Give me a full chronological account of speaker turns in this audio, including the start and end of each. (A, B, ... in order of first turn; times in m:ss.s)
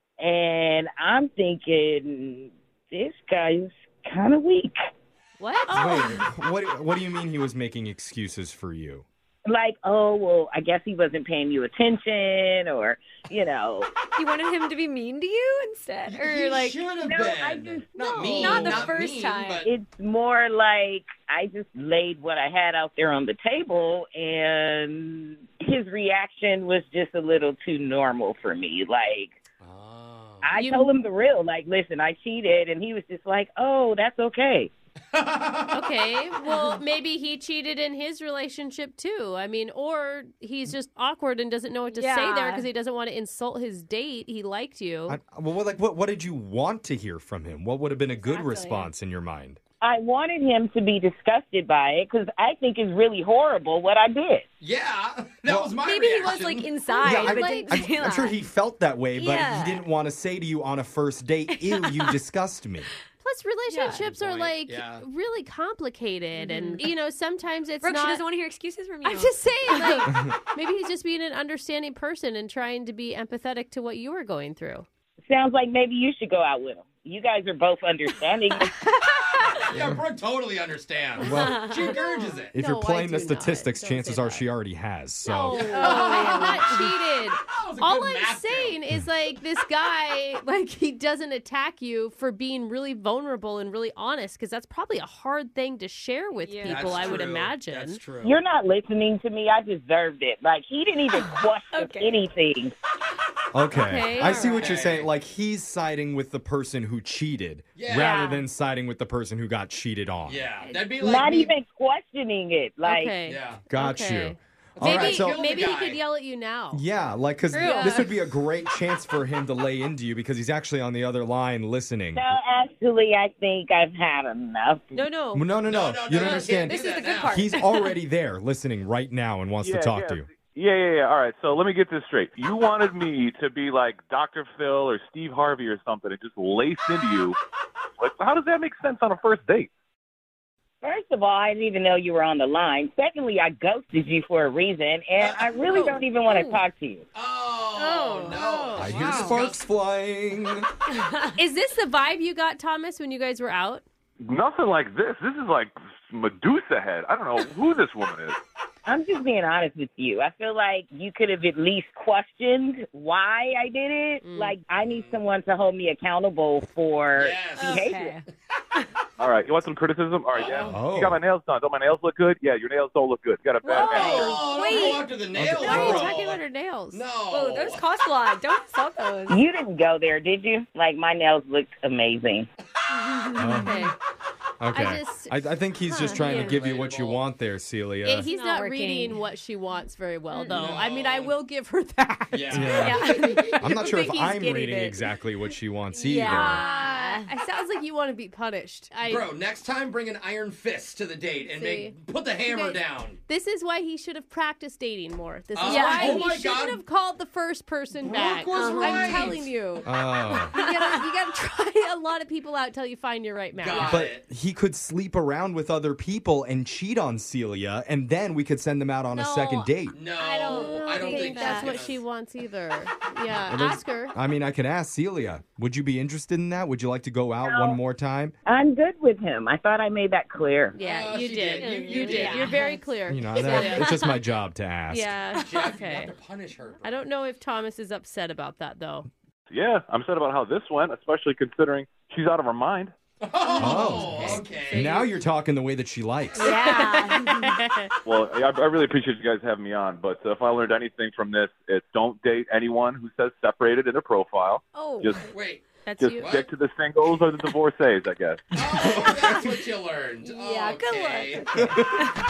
0:00.2-0:04.8 A
0:05.4-0:06.0 B
0:05.7-0:06.2 C
0:05.7-0:09.0 D
0:09.5-0:13.9 A
0:14.1-0:16.8 C
0:16.0-0:19.7 E
0:17.0-0:18.9 A
0:18.0-0:19.6 C
0:19.6-0:29.4 A
0:29.6-0:30.5 E
0:30.4-0:34.7 A
0:30.6-0:30.9 B
0:35.1-0:35.9 E
0:35.7-0:45.2 B
0:36.4-0:36.8 C
0:41.9-0:42.7 C
0:45.1-0:49.6 D
0:48.2-0:48.9 C
0:49.8-0:54.4 A
0:54.6-0:56.8 E
0:55.4-0:55.8 D
0:55.8-0:58.4 C
0:56.9-0:57.8 B
0:57.0-1:02.9 D
0:59.1-0:59.8 C
1:01.5-1:02.2 C
1:03.2-1:08.2 B
1:03.7-1:04.0 C
1:04.0-1:05.0 E
1:06.3-1:06.9 C
1:07.8-1:10.1 C
1:09.0-1:14.8 B
1:15.3-1:18.7 A
1:18.8-1:19.6 C
1:19.6-1:22.6 E
1:21.2-1:21.8 D
1:21.4-1:21.9 C
1:22.5-1:25.7 D
1:22.5-1:24.5 B
1:25.2-1:38.0 B
1:25.5-1:28.8 E
1:25.5-1:26.8 C
1:36.4-1:37.2 C
1:36.6-1:38.4 E
1:38.2-1:42.7 A
1:41.1-1:42.2 C
1:43.5-1:50.4 D
1:43.7-1:44.8 B
1:44.2-1:45.1 E
1:47.8-1:48.2 E
1:47.9-1:48.4 C
1:50.2-1:51.5 E
1:51.0-1:53.1 A
1:52.8-1:56.8 B
1:53.2-1:53.6 E
1:53.7-1:55.3 D
1:54.8-1:56.0 E
1:56.7-2:02.3 D
1:57.5-1:58.0 C
1:57.6-1:58.1 B
2:02.1-2:04.9 A
2:04.9-2:05.4 B
2:05.3-2:10.3 D
2:05.7-2:07.5 E
2:06.5-2:07.9 C
2:09.6-2:17.4 F
2:18.0-2:19.7 F
2:20.8-2:27.0 A
2:25.2-2:25.8 E
2:26.2-2:26.6 C
2:27.1-2:29.6 E
2:27.8-2:29.0 B
2:28.7-2:30.7 D
2:31.4-2:33.8 B
2:34.2-2:38.4 F
2:38.8-2:48.2 A
2:44.2-2:44.6 B
2:44.8-2:45.2 E
2:47.1-2:47.8 E
2:47.6-2:48.2 C
2:49.2-2:54.4 F
2:50.3-2:50.8 E
2:50.6-2:51.2 D
2:53.6-2:55.0 C
2:53.8-2:57.9 E
2:54.0-2:57.0 B
2:55.3-2:56.1 D
2:57.3-2:59.4 C
2:59.3-3:02.5 A
3:02.9-3:03.8 C
3:03.4-3:03.9 D
3:03.5-3:03.9 B
3:04.6-3:08.3 D
3:04.7-3:06.3 B
3:06.1-3:07.3 E
3:06.2-3:06.6 C
3:08.0-3:14.9 B
3:08.2-3:09.2 C
3:10.3-3:10.6 C
3:10.4-3:11.3 E
3:12.3-3:13.8 E
3:12.5-3:13.0 D
3:12.7-3:15.0 C
3:13.6-3:16.7 D
3:15.9-3:17.3 C
3:16.3-3:19.3 B
3:19.0-3:23.2 E
3:21.4-3:34.0 B
3:25.5-3:26.8 E
3:25.6-3:26.3 C
3:28.0-3:29.5 E
3:28.6-3:29.0 C
3:29.8-3:30.6 D
3:33.6-3:34.2 E
3:33.8-3:40.0 D
3:39.1-3:39.7 B
3:39.9-3:42.0 E
3:40.2-3:41.8 C
3:40.4-3:44.1 B
3:43.5-3:48.3 D
3:47.4-3:47.8 A
3:48.5-3:50.8 A
3:50.7-3:54.1 B
3:50.8-3:52.7 E
3:51.6-3:52.8 C
3:53.1-3:55.2 D
3:53.6-3:53.9 C
3:54.9-3:56.1 B
3:55.4-3:57.0 E
3:56.8-3:59.1 B
3:59.5-4:02.9 F
4:03.2-4:05.0 E
4:03.5-4:05.0 B
4:03.5-4:06.6 D
4:06.4-4:07.6 C
4:06.4-4:07.9 B
4:08.0-4:15.2 F
4:14.7-4:15.4 C
4:15.3-4:16.5 E
4:15.8-4:16.3 B
4:16.0-4:18.5 F
4:18.5-4:21.6 E
4:18.7-4:19.4 D
4:18.8-4:19.5 C
4:20.2-4:22.0 C
4:21.6-4:21.8 D